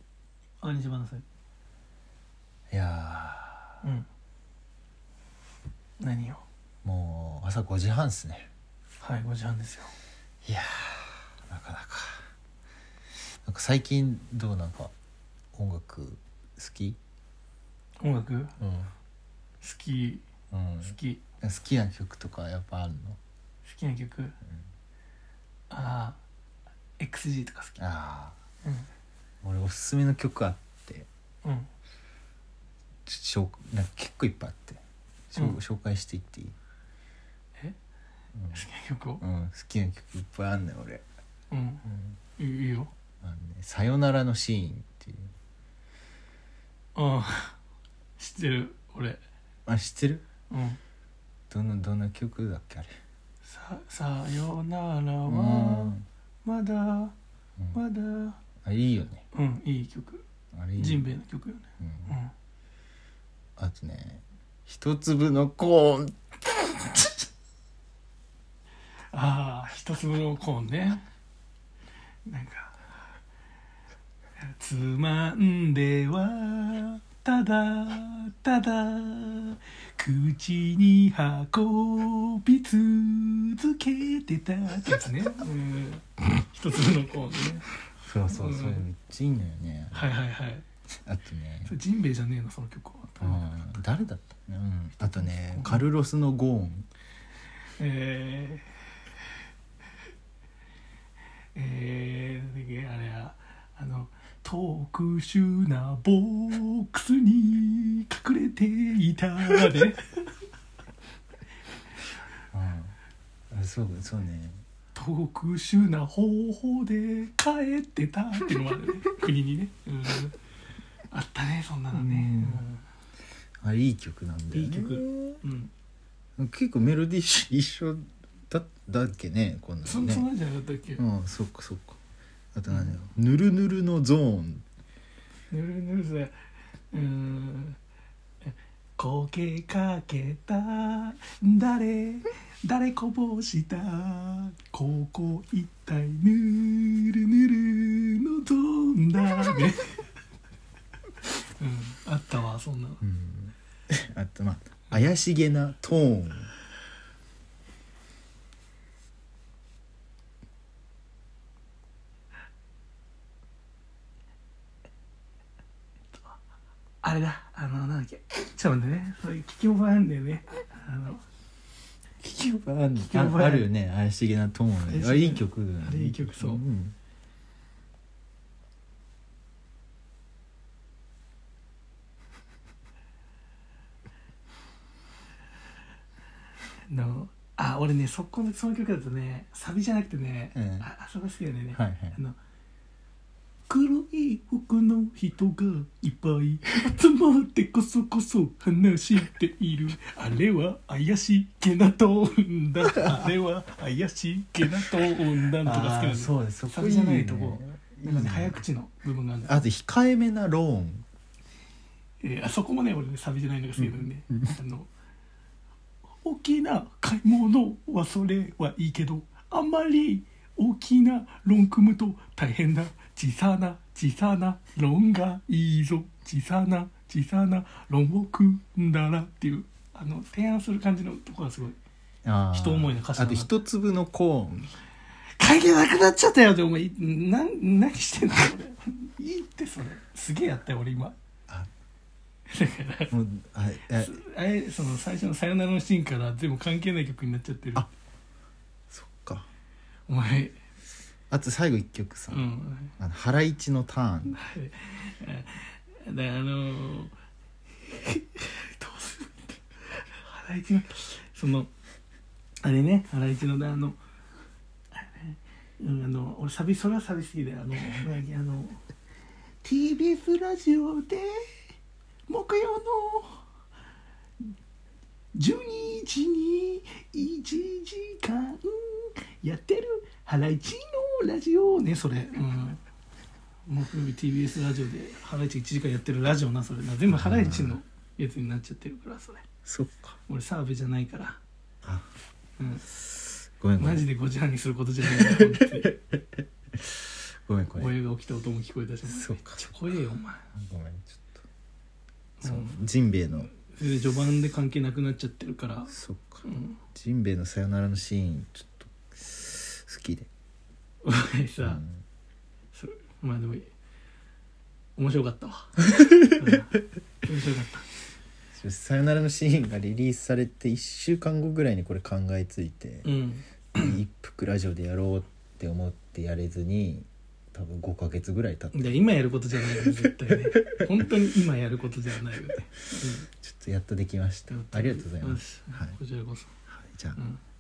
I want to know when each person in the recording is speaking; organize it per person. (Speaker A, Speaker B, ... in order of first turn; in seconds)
Speaker A: 0.6-1.2, 6.0-6.5, 9.0-9.9, 18.0-18.6, 19.6-20.2, 20.8-21.2, 23.6-24.4, 25.7-26.2, 27.0-27.8, 38.5-39.2, 41.5-41.9, 42.4-42.9, 47.0-47.6, 48.2-49.2, 50.5-50.8, 53.5-57.1, 57.7-58.4, 59.3-60.2, 60.8-62.3, 69.1-71.0, 72.3-72.8, 74.4-87.7, 88.3-88.8, 89.9-90.7, 91.7-93.8, 95.0-95.9, 97.8-98.9, 101.5-110.3, 115.0-120.3, 121.1-122.8, 124.5-125.7, 129.8-131.0, 135.5-136.3, 136.9-137.8, 138.4-150.1, 151.3-153.0, 167.0-171.2, 172.9-173.7, 174.8-176.6, 186.9-192.4, 193.7-209.6, 212.2-214.9, 216.2-231.8, 232.5-233.5, 235.4-241.2, 242.5-243.1, 243.9-247.9, 250.1-250.6, 252.3-252.9, 254.3-257.1, 257.9-261.7, 262.6-264.0, 264.9-268.8, 269.6-271.4, 272.3-273.4, 275.3-282.8, 283.7-289.5, 290.3-291.4, 292.6-292.9, 293.8-296.0, 297.8-300.5, 302.4-302.8, 303.5-306.8, 311.0-311.8, 312.7-313.7, 315.0-317.9, 323.1-324.0, 328.7-333.3, 334.5-336.6
Speaker B: 2.7-3.8, 6.8-8.5, 10.4-12.3, 13.4-14.9, 15.5-17.0, 18.6-18.9, 20.5-23.2, 27.8-28.4, 29.4-31.1, 33.1-36.6, 38.4-38.7, 39.2-41.0, 41.9-42.2, 43.2-45.3, 49.7-50.2, 51.5-52.9, 55.3-56.0, 58.6-59.2, 60.5-61.1, 61.8-62.1, 63.6-67.2, 88.0-90.2, 91.1-91.8, 93.2-96.9, 112.5-113.0, 113.5-114.6, 121.9-122.7, 123.6-125.4, 126.4-130.3, 131.0-132.0, 132.5-134.7, 153.0-156.5, 172.2-176.9, 190.6-190.9, 191.7-192.2, 205.6-208.6, 209.4-211.1, 213.8-214.1, 232.2-234.7, 243.1-244.2, 248.9-249.5, 251.3-254.4, 287.1-287.8, 289.7-290.2, 293.6-294.1, 295.2-297.9, 299.1-299.8, 300.5-301.4, 302.4-303.5, 305.9-310.3, 311.6-312.0, 318.5-323.1, 323.8-329.0, 333.1-336.0, 336.7-337.2